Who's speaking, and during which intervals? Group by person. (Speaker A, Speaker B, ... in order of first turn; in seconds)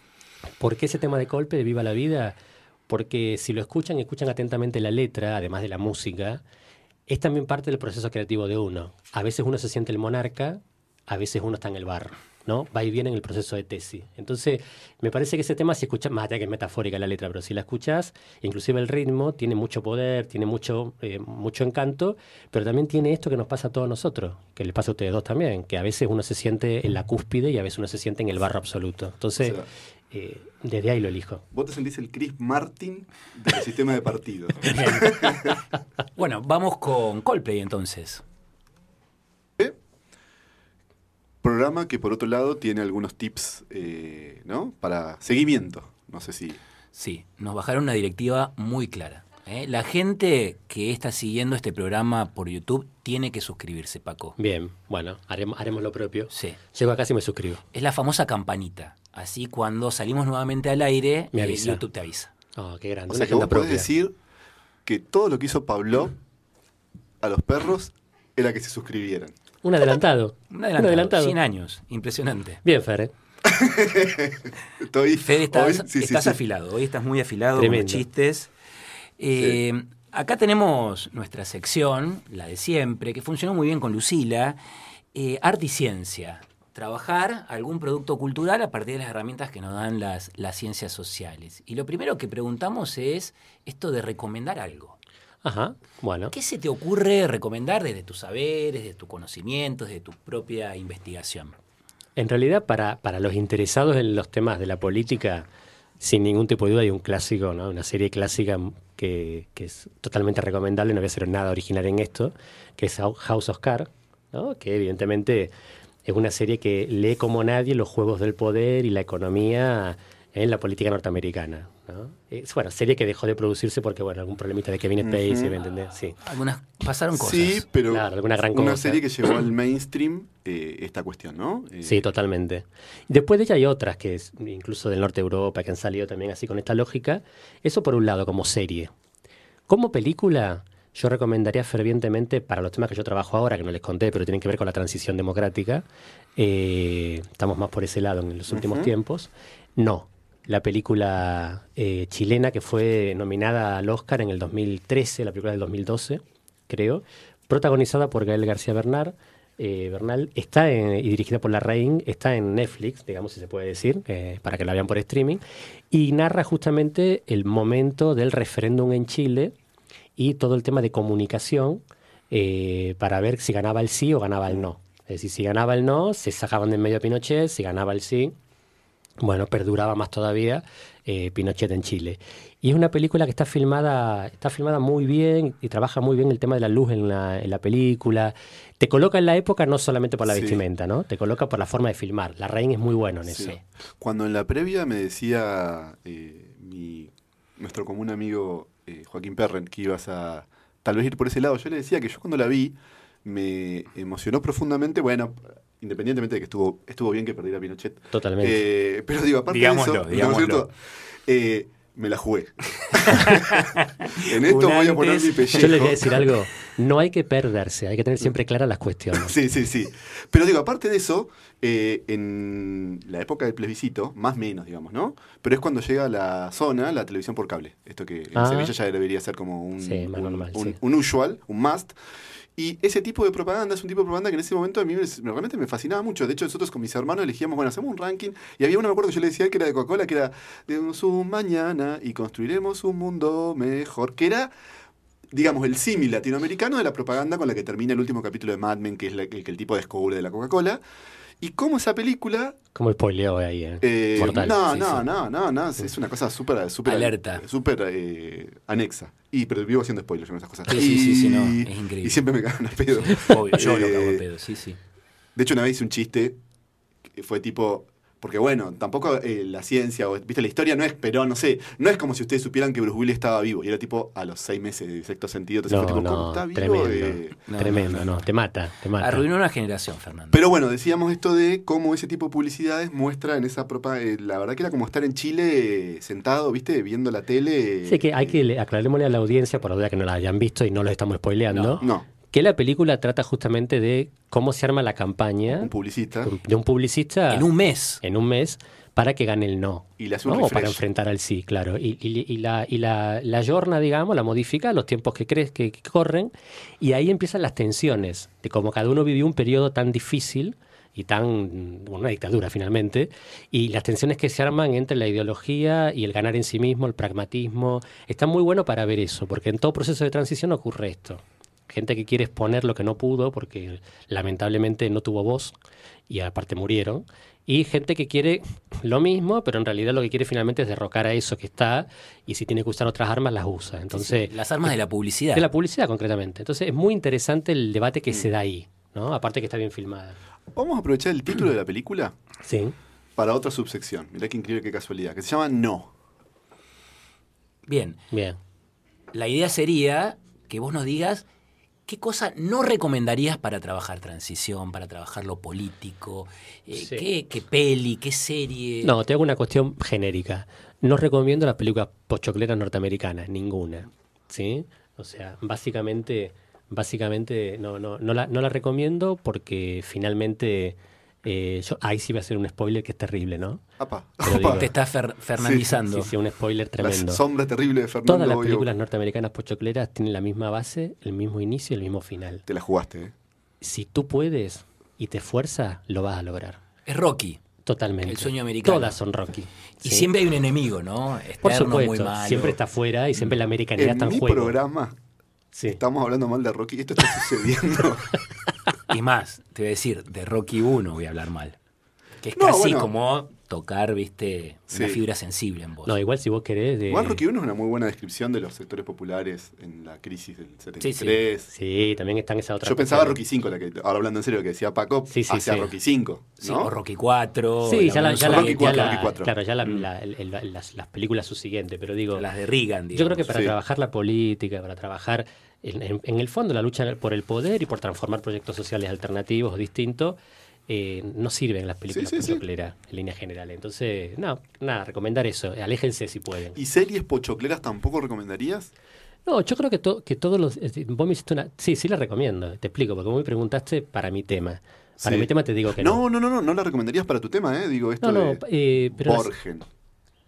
Speaker A: 0.6-2.4, 2.9-6.4, 7.1-31.4, 54.4-57.6, 61.3-61.8, 62.6-63.9, 69.6-71.4, 72.6-73.1, 77.6-78.0, 95.4-96.3, 102.2-105.5, 106.0-115.5, 116.0-126.2, 127.9-129.0, 131.8-138.9, 139.7-145.8, 146.4-169.6, 170.2-178.3, 179.2-193.6, 208.1-208.6, 215.6-219.3, 228.3-228.7, 229.8-230.8, 252.8-254.8, 275.7-279.2, 287.9-295.7, 296.2-297.5, 298.0-325.5, 326.1-334.7, 335.3-340.2, 342.4-342.8, 348.1-348.4, 356.8-357.0, 358.8-373.6, 374.2-374.7, 375.8-377.2, 378.0-382.4, 383.6-386.6, 387.6-390.1, 391.4-394.6, 395.5-395.8, 405.9-407.2, 411.5-413.2, 415.1-415.7, 417.6-422.2, 422.9-436.6, 439.2-446.0, 448.0-449.3
Speaker B: 29.4-29.6, 31.5-35.6, 41.4-46.6, 63.1-64.1, 64.8-66.2, 67.2-69.3, 73.4-76.4, 125.0-125.5, 127.1-132.1, 148.5-148.9, 190.3-190.6, 193.3-210.8, 211.3-216.2, 219.2-231.9, 232.6-244.5, 245.3-250.8, 251.4-252.6, 253.8-264.2, 265.4-266.4, 267.1-277.4, 280.3-288.4, 291.8-292.1, 295.5-296.3, 300.0-300.8, 340.5-342.1, 343.1-345.9, 373.8-374.7, 375.4-375.8, 376.8-378.7, 382.5-383.1, 393.8-395.0, 395.7-398.2, 402.4-402.9, 404.7-405.0, 406.9-411.5, 412.6-416.7, 418.2-419.3, 431.9-432.4, 436.5-438.7, 445.0-449.6
Speaker C: 34.6-35.5, 36.1-38.2, 46.9-54.4, 56.3-56.6, 57.7-62.3, 70.5-72.6, 75.2-78.5, 79.2-84.6, 85.1-95.0, 96.3-101.5, 126.2-127.6, 209.5-210.7, 212.9-215.9, 254.7-255.0, 256.9-257.4, 260.7-262.2, 263.0-264.8, 277.5-278.2, 279.0-280.4, 291.5-291.9, 297.3-298.0, 333.9-335.5, 347.7-348.0, 349.1-351.2, 351.9-358.9, 374.4-376.1, 386.9-387.4, 388.0-389.0, 389.8-392.6, 398.9-401.6, 402.2-406.0, 410.8-411.2, 416.4-418.9, 422.1-423.3